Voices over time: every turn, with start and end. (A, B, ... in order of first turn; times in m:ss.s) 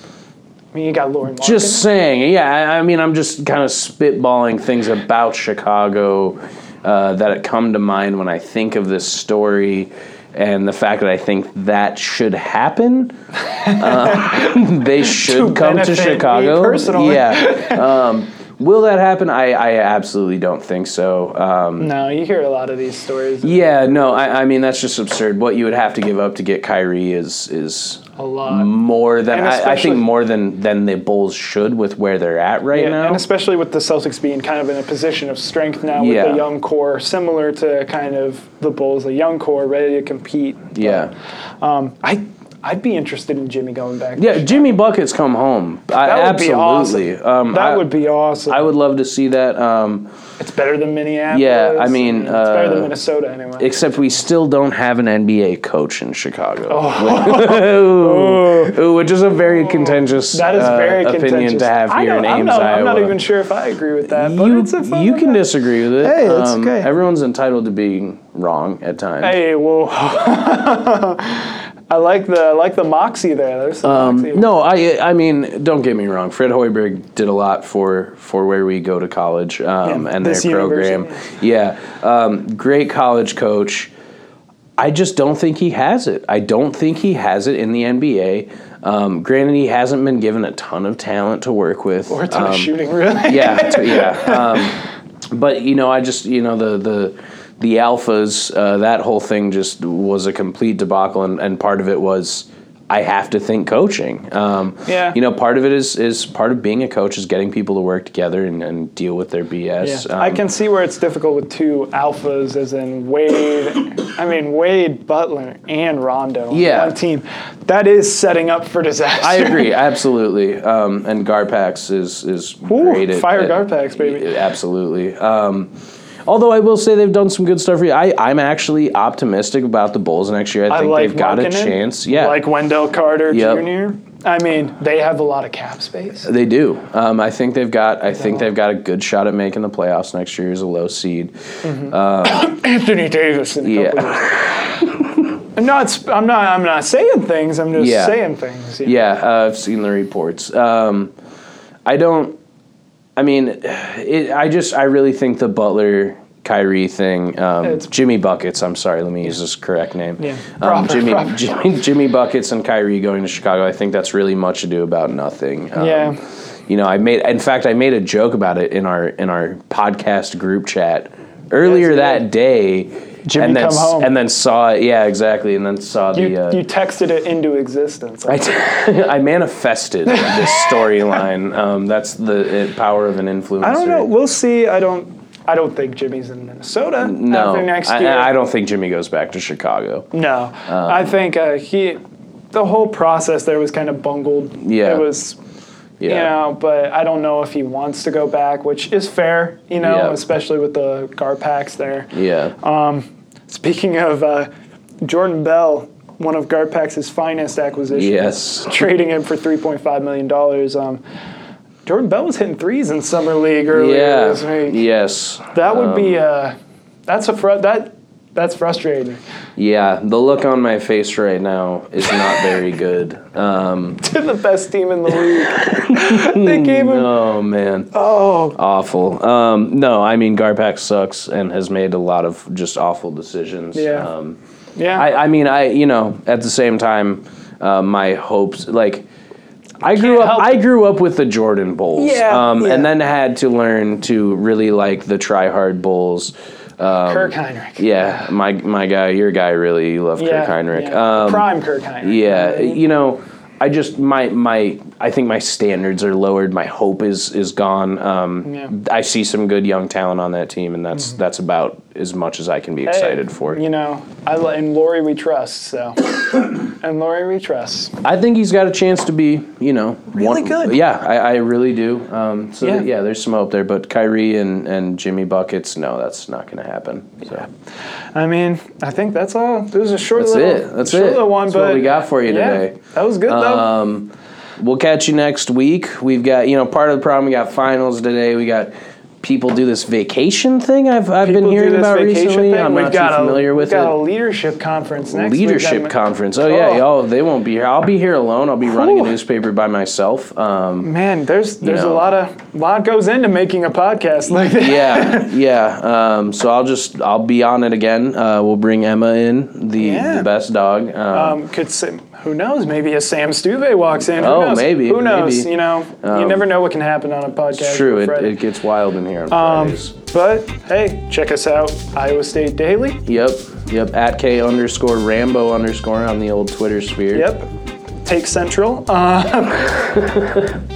0:00.7-0:01.8 A
0:01.4-0:21.9 B
0:13.6-0:17.9 A
0:21.8-0:24.0 A
0:23.4-0:33.2 B
0:28.2-0:28.7 A
0:29.3-0:30.1 A
0:32.7-0:44.7 A
0:35.9-0:36.4 B
0:40.7-0:41.1 B
0:44.2-0:47.9 B
0:46.0-0:48.6 A
0:48.5-0:50.1 B
0:50.4-0:53.7 A
0:51.3-0:52.9 B
0:53.6-1:03.2 B
0:56.7-0:58.8 A
0:59.4-1:05.4 A
1:04.1-1:09.4 B
1:06.0-1:06.9 A
1:09.2-1:14.5 A
1:13.8-1:23.9 B
1:19.8-1:21.3 A
1:24.8-1:34.8 B
1:32.1-1:34.7 A
1:35.3-1:50.4 B
1:44.8-1:45.2 A
1:49.8-1:59.8 A
1:56.5-1:57.0 B
1:59.2-2:05.7 B
2:02.7-2:04.3 A
2:06.2-2:12.5 B
2:10.7-2:16.3 A
2:13.3-2:13.7 B
2:16.2-2:22.5 B
2:21.6-2:24.9 A
2:23.6-2:25.3 B
2:25.6-2:29.0 A
2:27.7-2:28.2 B
2:28.8-2:31.1 B
2:31.8-2:32.4 B
2:33.2-2:56.6 B
2:40.2-2:41.4 A
2:45.8-2:46.2 A
2:51.6-2:52.2 A
2:53.2-2:54.1 A
2:56.1-2:58.5 A
2:58.3-3:04.1 B
3:00.1-3:00.8 A
3:03.6-3:08.3 A
3:07.0-3:10.1 B
3:10.1-3:12.0 A
3:10.6-3:11.1 B
3:12.5-3:15.4 A
3:14.6-3:15.1 B
3:16.0-3:16.3 B
3:16.0-3:24.5 A
3:19.8-3:20.2 B
3:22.1-3:22.6 B
3:25.0-3:31.0 A
3:27.9-3:28.8 B
3:31.8-3:34.8 A
3:33.7-3:36.2 B
3:35.5-3:36.6 A
3:37.1-3:39.2 A
3:39.6-3:44.0 B
3:44.0-3:47.1 A
3:45.1-3:54.4 B
3:47.9-3:48.6 A
3:53.7-3:54.1 A
3:54.8-3:55.1 A
3:54.9-3:59.0 B
3:59.8-4:11.5 B
3:59.9-4:00.6 A
4:02.0-4:02.9 A
4:07.1-4:08.2 A
4:10.2-4:12.8 A
4:12.0-4:23.6 B
4:18.4-4:18.7 A
4:22.8-4:27.9 A
4:28.0-4:37.5 B
4:30.1-4:30.8 A
4:32.6-4:32.9 A
4:38.1-4:43.7 A
4:40.2-4:53.9 B
4:51.2-4:56.8 A
4:55.1-5:00.9 B
4:58.7-4:59.1 A
5:00.8-5:05.3 A
5:01.6-5:02.1 B
5:04.5-5:11.4 B
5:09.8-5:10.3 A
5:11.1-5:18.4 A
5:14.1-5:16.4 B
5:17.5-5:19.9 B
5:19.3-5:23.0 A
5:23.0-5:27.3 B
5:27.1-5:27.5 A
5:28.0-5:30.1 A
5:29.9-5:30.5 B